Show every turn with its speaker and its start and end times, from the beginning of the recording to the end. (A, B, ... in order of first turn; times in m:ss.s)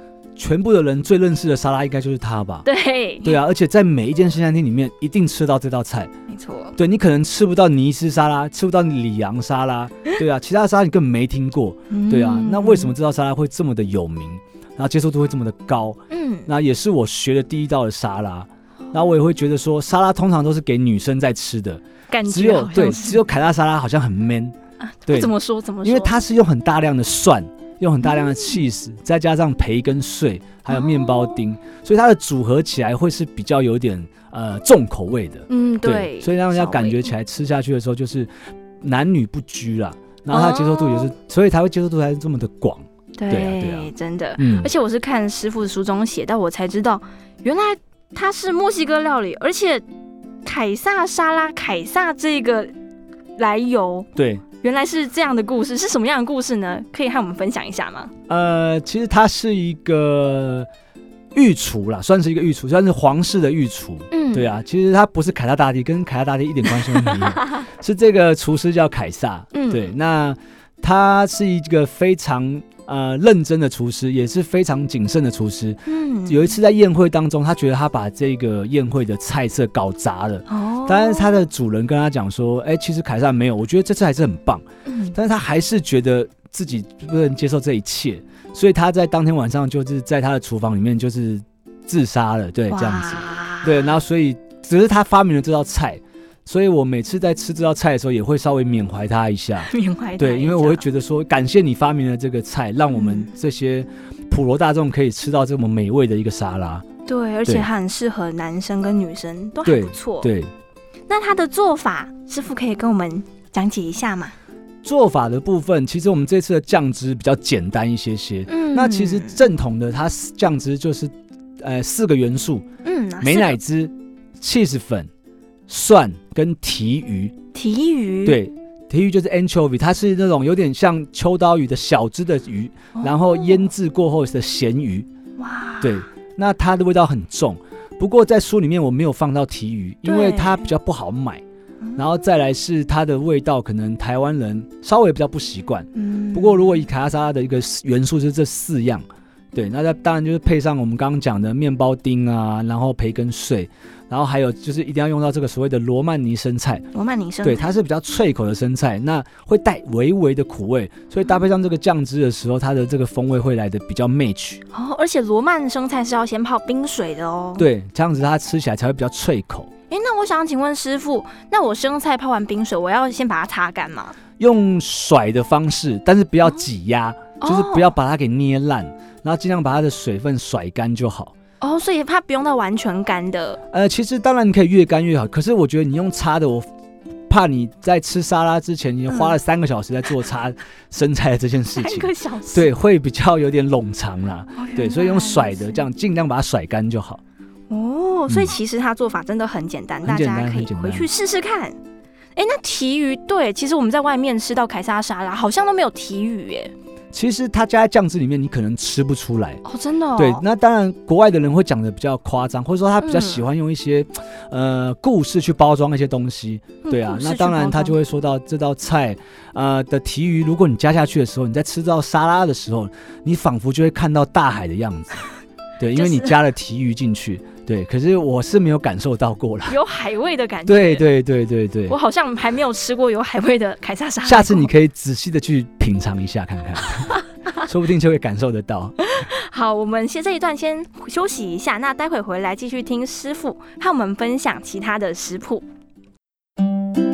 0:00.4-0:02.7 A
0:02.6-0:03.4 B
0:03.2-0:06.1 A
0:06.3-0:06.8 B
0:06.8-0:24.6 A
0:11.9-0:12.9 B
0:16.1-0:16.5 B
0:22.1-0:23.2 B
0:24.8-0:26.1 B
0:25.1-0:44.7 A
0:28.0-0:28.6 B
0:30.7-0:31.4 B
0:35.5-0:37.1 B
0:40.3-0:41.1 B
0:43.2-0:49.8 B
0:50.4-0:52.7 B
0:53.4-0:58.1 B
0:54.2-0:54.4 A
0:58.3-1:00.7 A
1:01.3-1:46.8 A
1:04.1-1:04.5 B
1:07.0-1:07.6 B
1:09.5-1:09.9 B
1:15.9-1:16.5 B
1:20.5-1:21.5 B
1:24.9-1:25.2 B
1:32.7-1:34.0 B
1:39.6-1:40.9 B
1:42.9-1:43.3 B
1:47.1-1:50.3 B
1:49.6-1:50.5 A
1:51.1-1:54.3 B
1:54.8-2:02.6 A
1:58.5-1:59.4 B
2:02.8-2:03.6 B
2:03.2-2:05.1 A
2:05.7-2:07.4 A
2:07.5-2:08.4 B
2:08.2-2:15.1 A
2:13.0-2:13.7 B
2:15.4-2:16.0 B
2:15.8-2:21.4 A
2:20.0-2:20.7 B
2:22.0-2:36.8 A
2:26.0-2:26.8 B
2:36.9-2:37.7 B
2:37.4-2:44.6 A
2:44.7-2:47.7 B
2:47.6-2:49.7 A
2:49.9-2:54.2 B
2:54.4-3:01.3 A
2:57.4-2:57.9 B
3:01.6-3:03.6 B
3:03.7-3:06.7 A
3:07.3-3:17.2 A
3:11.8-3:12.7 B
3:14.6-3:15.8 B
3:17.7-3:21.8 B
3:18.3-3:18.6 A
3:20.0-3:21.1 A
3:22.4-3:26.7 B
3:27.1-3:29.6 A
3:29.6-3:30.4 B
3:30.2-3:45.3 A
3:33.0-3:33.4 B
3:36.8-3:38.0 B
3:45.8-3:49.8 A
3:45.9-3:46.3 B
3:49.7-3:51.1 B
3:50.7-3:52.0 A
3:51.9-3:54.7 B
3:54.2-3:59.0 A
3:59.1-4:05.6 B